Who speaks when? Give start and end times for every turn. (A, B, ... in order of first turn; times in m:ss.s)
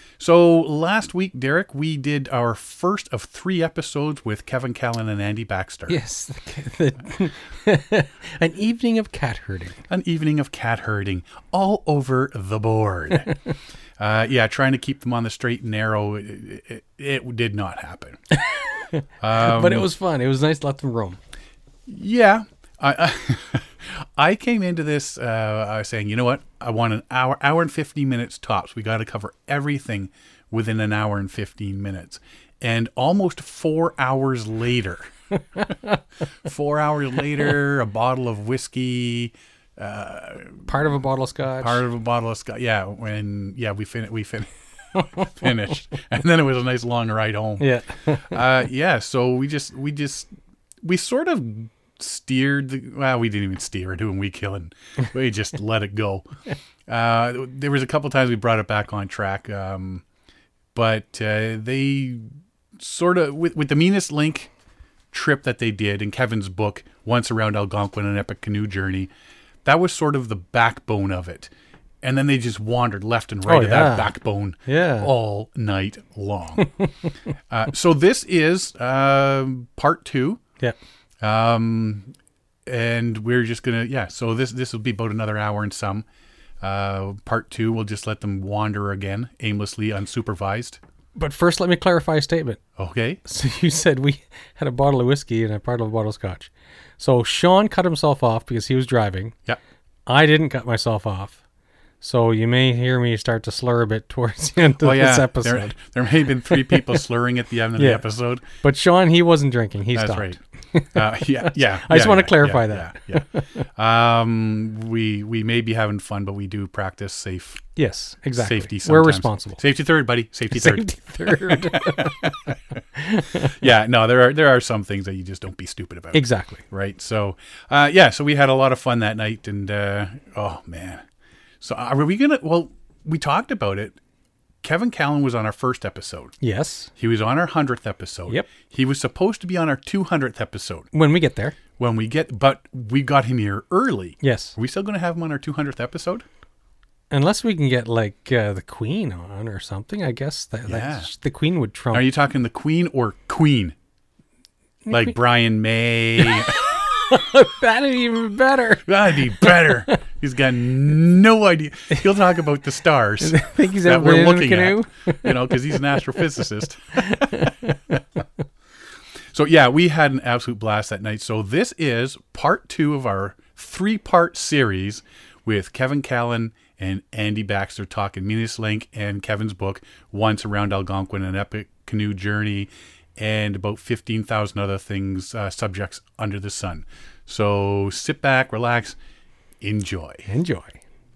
0:00.2-0:06.0 A
0:05.9-0:09.8 B
0:09.9-0:13.3 A
0:14.0-0:18.2 A
0:18.4-0:21.2 B
0:19.2-0:19.9 A
0:21.9-0:35.1 A
0:36.4-0:40.7 A
0:40.7-0:41.8 B
0:41.6-0:44.5 A
0:45.2-0:47.7 A
0:47.6-0:48.4 B
0:48.3-0:50.3 A
0:50.8-0:56.3 A
0:56.9-1:00.0 A
1:00.7-1:02.2 A
1:02.8-1:04.5 A
1:05.1-1:09.1 A
1:09.6-1:11.5 A
1:12.0-1:16.7 A
1:13.4-1:14.1 B
1:14.7-1:15.1 B
1:17.5-1:20.4 A
1:21.2-1:22.1 A
1:22.7-1:26.0 A
1:26.6-1:30.8 A
1:31.1-1:32.6 B
1:32.8-1:33.2 A
1:33.2-1:39.3 B
1:40.1-1:41.3 B
1:42.0-1:45.8 B
1:44.8-1:48.4 A
1:46.4-1:47.0 B
1:47.8-1:53.6 B
1:49.9-1:50.4 A
1:50.9-1:53.2 A
1:53.8-1:57.7 A
1:57.8-1:59.6 B
1:58.4-2:02.6 A
2:00.5-2:02.2 B
2:03.0-2:03.5 B
2:03.5-2:11.0 A
2:06.1-2:06.6 B
2:11.6-2:14.0 A
2:14.6-2:16.3 A
2:16.4-2:16.9 B
2:17.0-2:20.9 A
2:20.9-2:21.6 B
2:21.8-2:26.2 A
2:24.2-2:24.5 B
2:27.1-2:32.1 B
2:30.7-2:31.1 A
2:31.9-2:33.8 A
2:34.8-2:35.2 B
2:34.9-2:36.6 A
2:36.2-2:38.9 B
2:38.8-2:47.5 A
2:39.4-2:40.0 B
2:43.2-2:46.0 B
2:46.9-2:47.8 B
2:49.3-3:09.0 A
3:09.6-3:10.2 A
3:10.3-3:10.8 B